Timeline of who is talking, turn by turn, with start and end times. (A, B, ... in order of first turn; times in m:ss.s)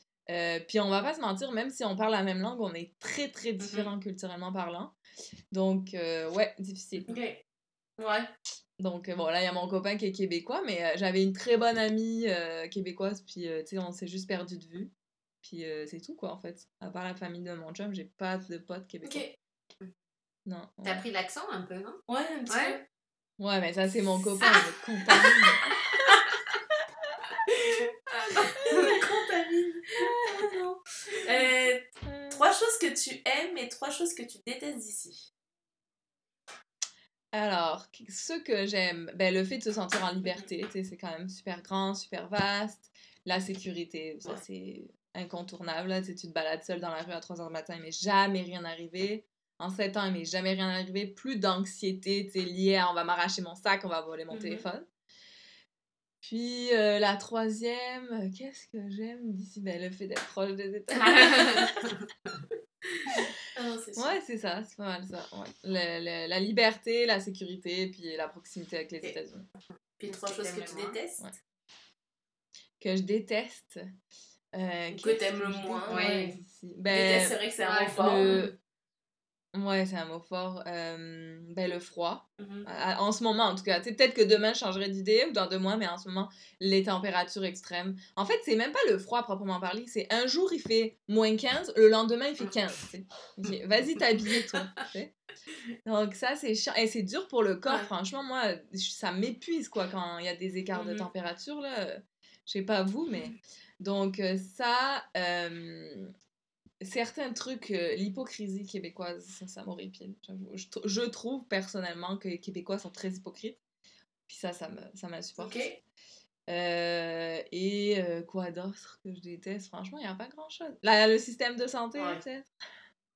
0:00.3-0:04.9 A
0:03.6-0:03.9 B
0:05.5-0:07.2 A
0:07.1-0:07.4 B
0:08.0-0:08.3 B
0:08.8-0:14.9 A
0:15.4-0:19.2 A
0:19.0-0:19.3 B
0:20.4-0:21.0 A
0:20.8-0:22.8 C
0:22.1-0:22.8 B
0:23.4-0:26.2 A
0:27.5-0:35.3 B
0:28.6-0:29.1 A
0:30.0-0:30.6 A
0:32.0-0:32.4 A
0:37.3-0:54.8 A
0:54.3-0:54.6 B
0:56.2-1:01.9 A
1:01.1-1:02.0 C
1:03.5-1:04.2 B
1:04.0-1:09.5 A
1:10.0-1:11.2 B
1:10.0-1:11.0 C
1:12.8-1:13.8 A
1:14.6-1:17.4 A
1:14.9-1:16.4 B
1:15.9-1:16.3 C
1:16.9-1:18.4 B
1:17.6-1:18.5 C
1:18.0-1:18.5 A
1:19.5-1:35.1 A
1:22.4-1:22.7 B
1:35.8-1:46.1 A
1:40.7-1:41.1 B
1:46.8-1:53.6 A
1:54.3-1:55.6 A
1:55.4-1:55.8 B
1:56.5-2:02.5 A
2:01.9-2:02.2 B